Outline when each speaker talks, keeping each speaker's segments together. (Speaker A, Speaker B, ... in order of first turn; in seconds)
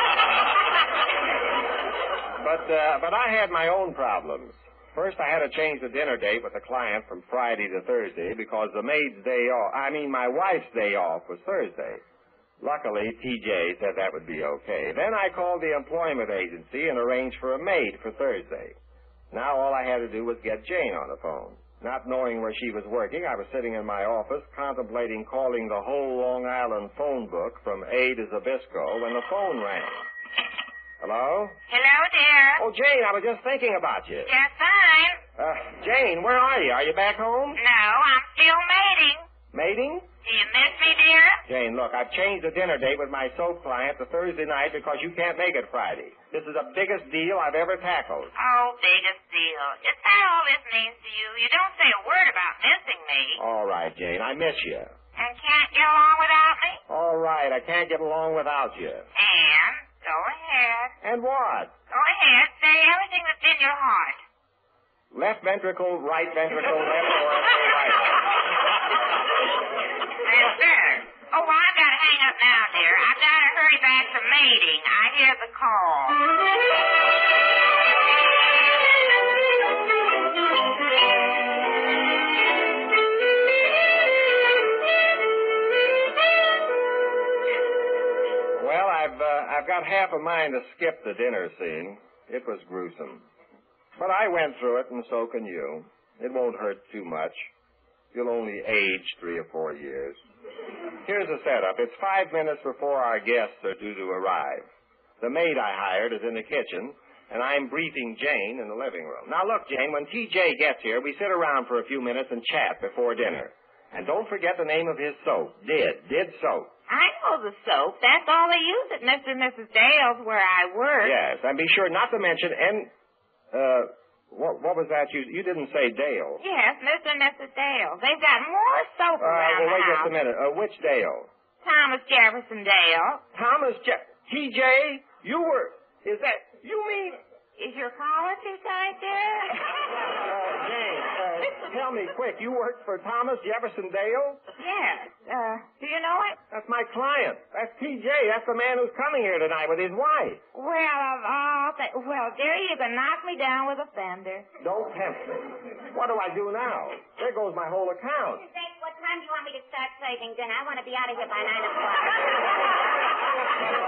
Speaker A: 2.4-12.0, 12.6-18.8, 19.3-30.0, 31.0-31.6, 32.6-34.3, 35.4-37.6, 39.5-40.1, 41.5-48.3, 53.4-54.9, 56.9-59.0, 61.0-61.7, 65.1-68.3, 88.5-93.2, 94.0-97.5, 98.1-100.2, 101.0-104.7, 105.2-116.7, 121.0-122.9, 123.5-126.4, 129.2-131.3, 133.3-137.2, 140.0-144.4, 146.5-150.4, 154.6-158.4
Speaker B: 31.7-32.6, 34.2-35.2, 37.5-39.2, 40.2-41.4, 48.4-53.4, 55.2-56.8, 59.2-60.9, 61.9-64.2, 70.2-76.2, 116.9-121.2, 126.4-130.1, 131.6-133.2, 137.6-139.7, 144.6-146.4, 150.5-154.4
Speaker C: 158.4-162.5